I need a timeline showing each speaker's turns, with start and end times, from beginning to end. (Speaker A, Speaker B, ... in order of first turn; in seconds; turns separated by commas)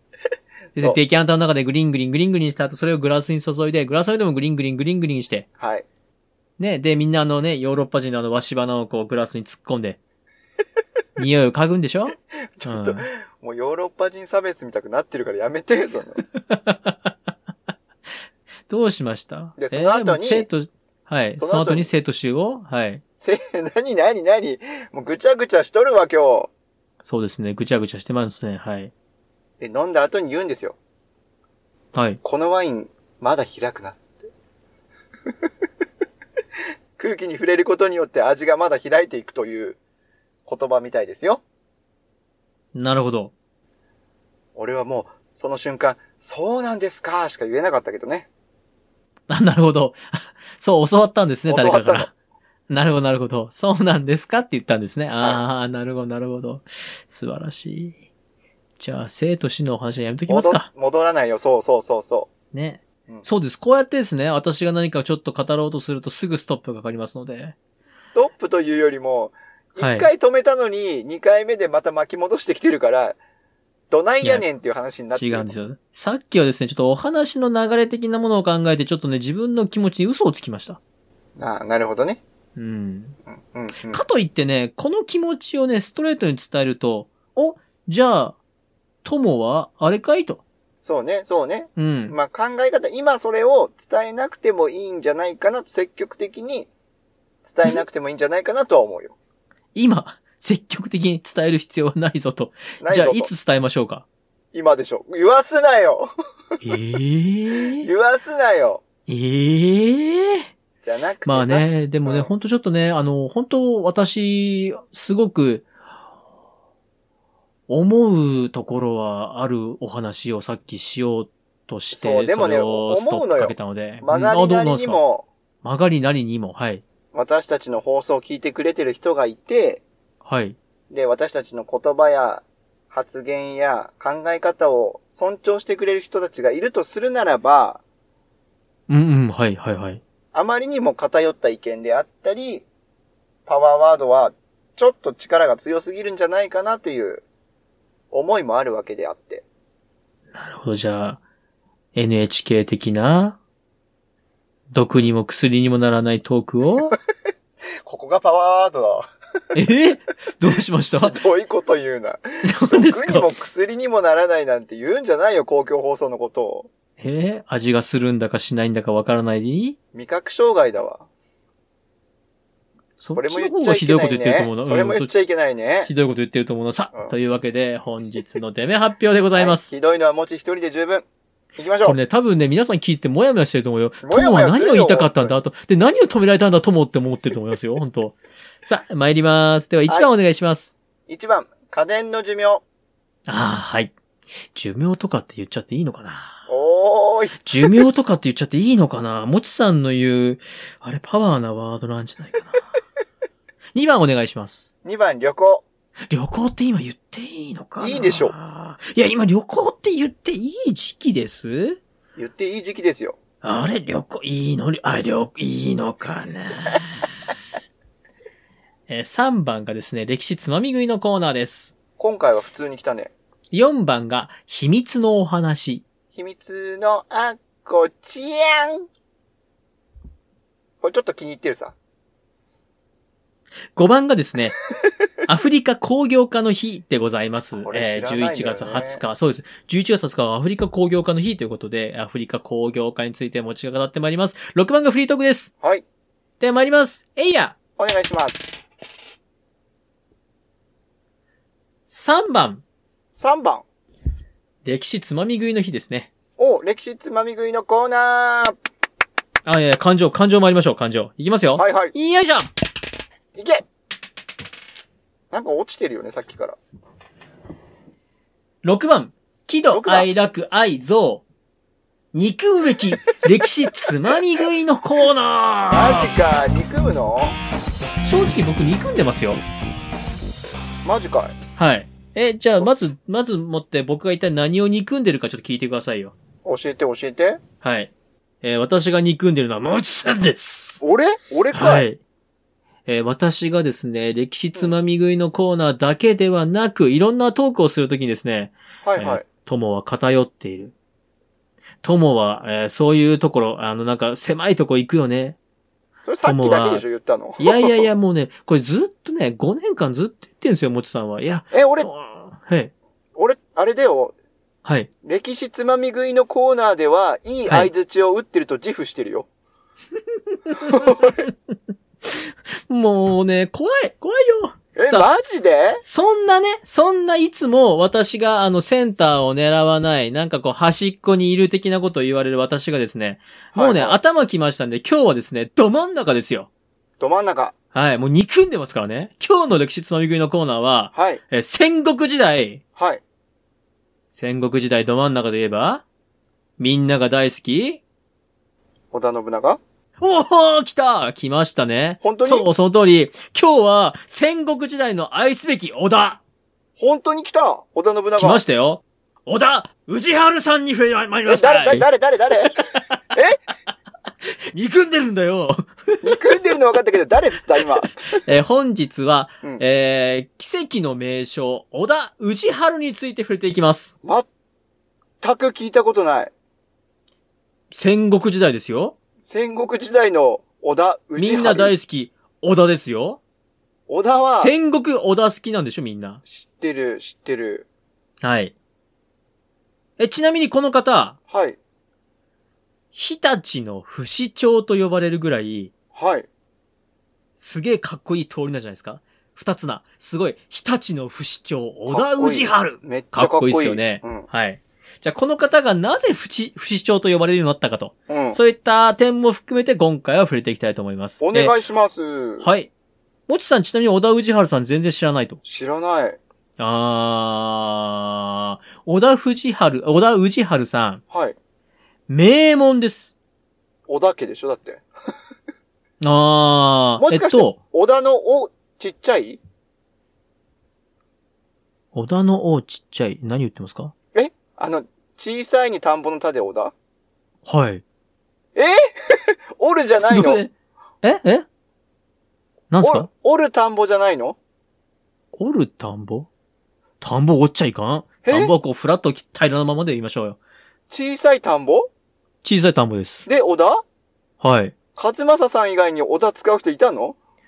Speaker A: 0.7-5.5, Speaker B: 5.6-5.8, Speaker A: 6.6-10.0, Speaker A: 11.2-13.1, Speaker B: 12.6-16.2, Speaker A: 16.5-17.1, Speaker A: 18.7-23.0, Speaker B: 19.6-20.5, Speaker B: 21.4-21.9, Speaker B: 23.2-26.5, Speaker A: 27.0-28.9, Speaker B: 29.6-30.8, Speaker A: 31.9-32.2, Speaker B: 32.2-34.2, Speaker B: 37.0-39.8, Speaker B: 40.5-41.4, Speaker A: 42.7-43.3, Speaker B: 44.5-48.3, Speaker A: 49.3-52.1, Speaker B: 51.5-52.1, Speaker A: 52.7-57.9, Speaker A: 58.8-60.7, Speaker B: 60.3-62.3, Speaker A: 62.5-67.5, Speaker B: 68.0-73.2, Speaker A: 69.8-70.1, Speaker B: 73.9-75.5, Speaker A: 75.1-80.8, Speaker B: 81.4-82.2, Speaker A: 82.5-83.2, Speaker B: 83.4-84.0, Speaker A: 83.9-88.4, Speaker A: 89.0-90.4, Speaker B: 90.8-96.7, Speaker A: 91.8-92.1, Speaker B: 97.4-99.1, Speaker A: 99.7-104.0, Speaker B: 102.8-103.3, Speaker B: 104.5-106.1, Speaker A: 106.6-107.9, Speaker B: 107.8-108.8, Speaker A: 109.1-110.5, Speaker B: 110.8-112.3, Speaker A: 111.2-115.7, Speaker A: 117.7-125.0, Speaker B: 121.9-125.2, Speaker A: 125.6-126.8, Speaker B: 127.1-129.8, Speaker A: 130.2-130.6, Speaker B: 130.9-137.8, Speaker A: 138.9-140.0, Speaker B: 140.3-142.7, Speaker B: 143.4-147.2, Speaker B: 148.1-149.4, Speaker A: 150.3-151.2, Speaker A: 151.9-153.4, Speaker A: 154.7-156.9, Speaker B: 157.8-159.1, Speaker A: 159.5-161.1, Speaker B: 161.0-166.7, Speaker A: 162.4-163.3, Speaker A: 167.0-169.8, Speaker B: 169.9-171.1, Speaker A: 173.0-175.1, Speaker B: 173.1-175.9, Speaker A: 175.8-179.7, Speaker B: 179.3-181.1, Speaker B: 181.6-182.0, Speaker A: 181.8-190.7, Speaker B: 184.0-185.3, Speaker B: 191.1-192.6, Speaker A: 193.3-196.4, Speaker B: 196.5-197.8, Speaker A: 197.4-202.6, Speaker A: 203.7-204.7, Speaker B: 204.8-205.6, Speaker A: 206.1-211.8, Speaker B: 207.8-208.3, Speaker B: 212.2-213.2, Speaker A: 213.4-217.1, Speaker A: 218.9-221.7, Speaker B: 222.0-223.1, Speaker A: 223.5-225.8, Speaker B: 226.1-228.9, Speaker B: 230.8-231.7, Speaker A: 233.7-234.6, Speaker A: 235.2-245.5, Speaker B: 237.6-239.0, Speaker A: 246.4-247.5, Speaker B: 247.8-248.4, Speaker A: 251.9-252.6, Speaker B: 253.2-253.6, Speaker A: 254.6-256.1, Speaker B: 256.4-258.6, Speaker A: 259.4-262.5, Speaker B: 261.6-261.9, Speaker B: 263.3-263.6, Speaker B: 265.3-266.6, Speaker A: 268.6-271.2, Speaker B: 269.7-270.1, Speaker A: 272.1-276.1, Speaker B: 275.7-277.4, Speaker A: 278.0-279.4, Speaker B: 280.8-281.4, Speaker A: 281.6-286.1, Speaker B: 286.4-287.4, Speaker A: 287.6-290.8, Speaker B: 290.8-291.8, Speaker A: 291.5-292.0, Speaker A: 292.9-300.7, Speaker B: 298.8-299.2, Speaker A: 301.8-305.4, Speaker B: 306.0-307.9, Speaker A: 306.2-306.8, Speaker A: 307.4-312.7, Speaker B: 311.5-311.9, Speaker B: 313.1-314.1, Speaker B: 315.0-319.3, Speaker A: 320.5-321.1, Speaker B: 320.7-321.1, Speaker A: 322.0-336.5, Speaker B: 324.8-325.8, Speaker B: 333.5-334.0, Speaker B: 337.0-337.5, Speaker A: 337.7-342.6, Speaker B: 340.9-341.2, Speaker B: 342.8-343.0, Speaker A: 344.1-345.8, Speaker A: 346.6-347.8, Speaker B: 348.9-349.6, Speaker A: 350.0-356.2, Speaker B: 352.0-352.5, Speaker B: 356.8-358.4, Speaker A: 358.2-361.9, Speaker B: 361.3-362.6, Speaker B: 363.1-363.4, Speaker A: 364.5-366.4, Speaker B: 366.0-368.1, Speaker A: 368.1-374.0, Speaker B: 375.2-376.3, Speaker A: 377.7-378.9, Speaker B: 379.2-381.7, Speaker A: 381.2-383.2, Speaker B: 383.9-384.5, Speaker A: 384.3-386.2, Speaker B: 386.3-387.6, Speaker A: 388.2-388.5, Speaker A: 390.0-391.1, Speaker B: 391.3-391.6, Speaker A: 392.9-395.7, Speaker B: 395.9-396.3, Speaker A: 397.4-411.5, Speaker B: 401.9-404.3, Speaker B: 408.1-408.4, Speaker B: 411.2-412.5, Speaker A: 412.4-412.7, Speaker A: 413.3-415.4, Speaker B: 415.4-416.2, Speaker A: 416.6-421.0, Speaker B: 421.1-421.4, Speaker A: 422.1-423.1, Speaker B: 423.9-424.9, Speaker A: 426.0-427.6, Speaker B: 427.0-429.4, Speaker A: 431.9-433.9, Speaker B: 434.1-436.7, Speaker A: 437.4-437.8, Speaker B: 438.5-440.4, Speaker A: 440.1-440.5, Speaker A: 441.0-441.4, Speaker A: 442.7-443.1, Speaker B: 442.8-444.4, Speaker A: 445.3-446.3, Speaker A: 447.0-450.4, Speaker B: 448.2-448.5, Speaker B: 450.9-451.9, Speaker A: 452.4-453.3, Speaker B: 453.2-453.8, Speaker A: 454.4-454.7, Speaker B: 454.9-457.1